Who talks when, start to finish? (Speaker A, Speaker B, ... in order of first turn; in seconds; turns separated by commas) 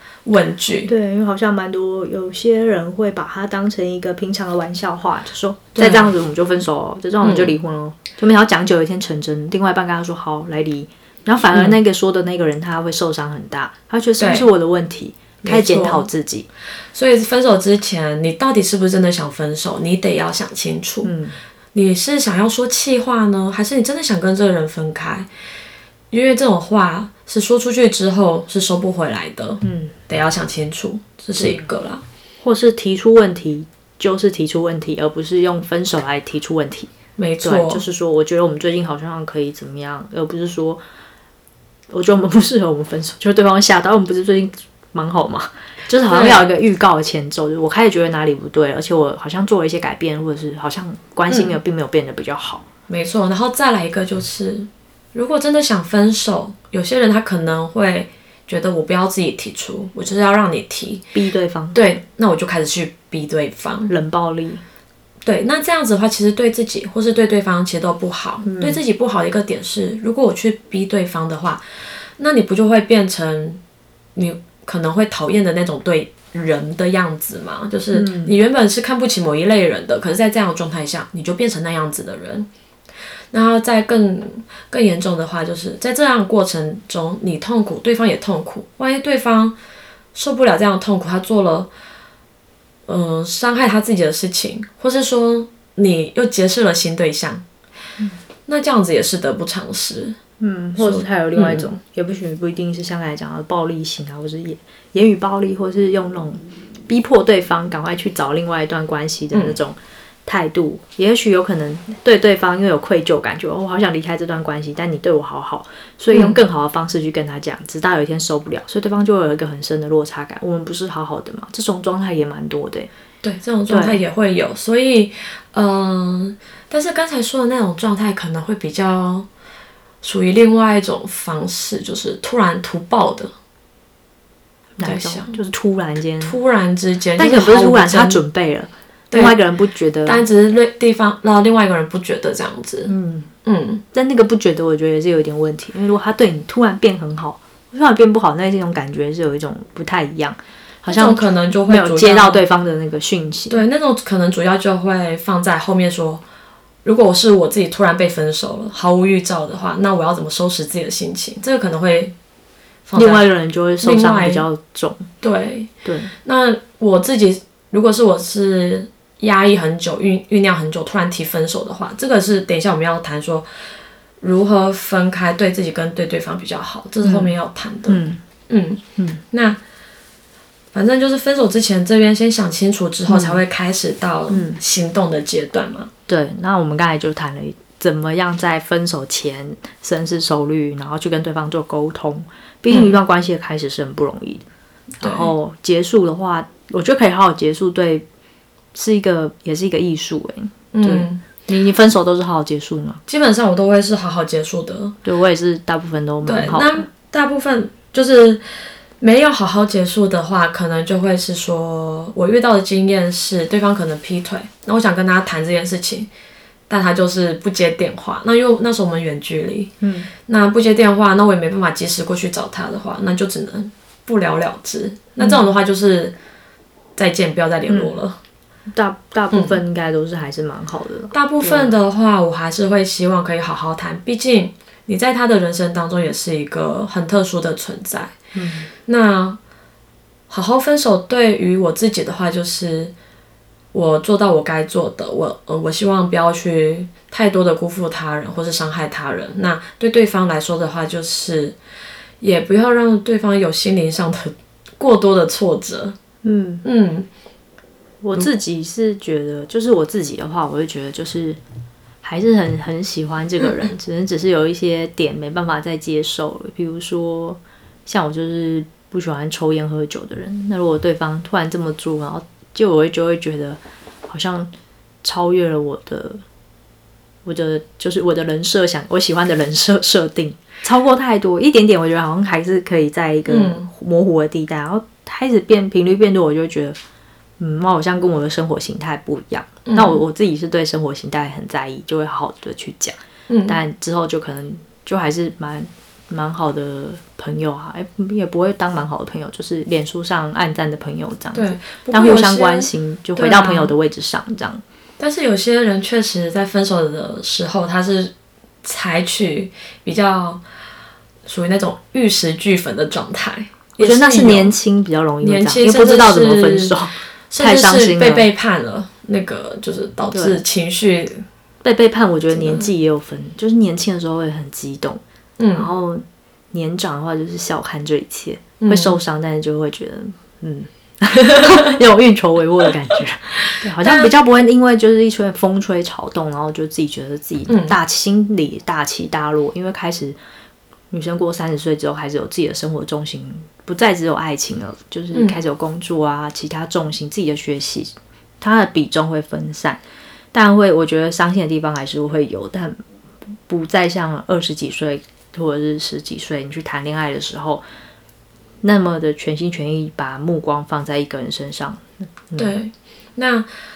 Speaker A: 0.3-0.9, Speaker B: 0.9-16.5, Speaker A: 5.8-6.1, Speaker A: 7.2-7.5, Speaker A: 11.5-11.8, Speaker A: 14.2-14.5, Speaker A: 15.4-16.1, Speaker A: 16.9-21.1, Speaker B: 21.0-21.4, Speaker A: 21.7-25.3, Speaker A: 26.1-32.0, Speaker B: 29.6-29.9, Speaker B: 31.4-31.6, Speaker B: 32.4-36.9, Speaker A: 37.2-37.8, Speaker B: 37.4-40.8, Speaker B: 41.9-52.6, Speaker A: 46.1-46.5, Speaker A: 51.3-51.6, Speaker A: 52.9-61.1, Speaker B: 61.1-61.8, Speaker A: 61.7-63.9, Speaker B: 63.9-64.6, Speaker A: 65.2-71.6, Speaker B: 68.4-68.8, Speaker A: 72.2-73.6, Speaker A: 74.2-82.5, Speaker B: 77.9-78.3, Speaker A: 83.3-89.6, Speaker A: 90.1-91.7, Speaker A: 92.9-97.4, Speaker A: 98.5-100.2, Speaker B: 100.4-122.9, Speaker A: 100.8-101.7, Speaker A: 109.3-109.6, Speaker A: 116.1-116.4, Speaker A: 123.2-129.3, Speaker B: 123.7-124.0, Speaker A: 130.0-133.3, Speaker B: 134.8-136.3, Speaker A: 134.8-135.4, Speaker A: 136.2-138.2, Speaker B: 137.2-140.3, Speaker A: 139.1-139.4, Speaker A: 140.0-142.9, Speaker B: 142.8-143.3, Speaker A: 143.4-143.8, Speaker B: 143.9-153.6, Speaker A: 150.9-152.4, Speaker A: 153.5-156.2, Speaker A: 156.8-162.1, Speaker A: 162.9-163.3, Speaker B: 162.9-165.1, Speaker A: 163.8-164.5, Speaker A: 165.2-165.7, Speaker B: 165.8-166.1, Speaker A: 166.2-173.5, Speaker A: 174.2-179.6, Speaker B: 177.0-177.3, Speaker B: 177.9-178.2, Speaker B: 179.0-179.2, Speaker A: 180.7-185.9, Speaker B: 183.1-183.4, Speaker B: 184.3-184.6, Speaker B: 186.1-194.4, Speaker A: 192.7-193.0, Speaker A: 195.0-195.3, Speaker B: 195.0-198.0, Speaker B: 198.7-203.0, Speaker A: 200.7-201.2, Speaker A: 203.1-205.0, Speaker B: 205.0-206.9, Speaker A: 206.2-216.1, Speaker A: 216.7-219.7, Speaker B: 219.8-220.1, Speaker A: 220.3-226.2, Speaker B: 225.2-225.5, Speaker A: 227.0-228.2, Speaker B: 227.7-228.0, Speaker B: 228.7-231.8, Speaker A: 229.3-229.6, Speaker A: 231.1-238.1, Speaker B: 238.3-238.7, Speaker A: 238.9-239.4, Speaker A: 240.3-242.9, Speaker A: 243.7-251.6, Speaker A: 252.2-256.0, Speaker B: 256.2-256.6, Speaker A: 256.6-257.1, Speaker B: 258.0-261.4, Speaker B: 262.0-274.5, Speaker B: 275.0-276.2, Speaker B: 277.2-286.8, Speaker A: 283.3-283.7, Speaker B: 287.4-304.6, Speaker A: 289.6-290.0, Speaker A: 293.3-293.6, Speaker A: 301.3-303.7, Speaker A: 305.0-308.1, Speaker A: 308.6-310.4, Speaker A: 311.2-314.5, Speaker B: 313.8-318.3, Speaker A: 315.2-316.8, Speaker A: 317.3-321.2, Speaker B: 320.1-320.4, Speaker B: 321.6-325.0, Speaker A: 322.3-322.7, Speaker A: 325.4-325.7, Speaker B: 325.5-340.2, Speaker A: 328.6-329.0, Speaker A: 333.8-334.1, Speaker A: 337.5-337.8, Speaker B: 340.9-349.8, Speaker A: 345.1-345.4, Speaker B: 350.3-352.8, Speaker B: 353.5-357.6, Speaker B: 358.6-362.5, Speaker A: 362.4-363.5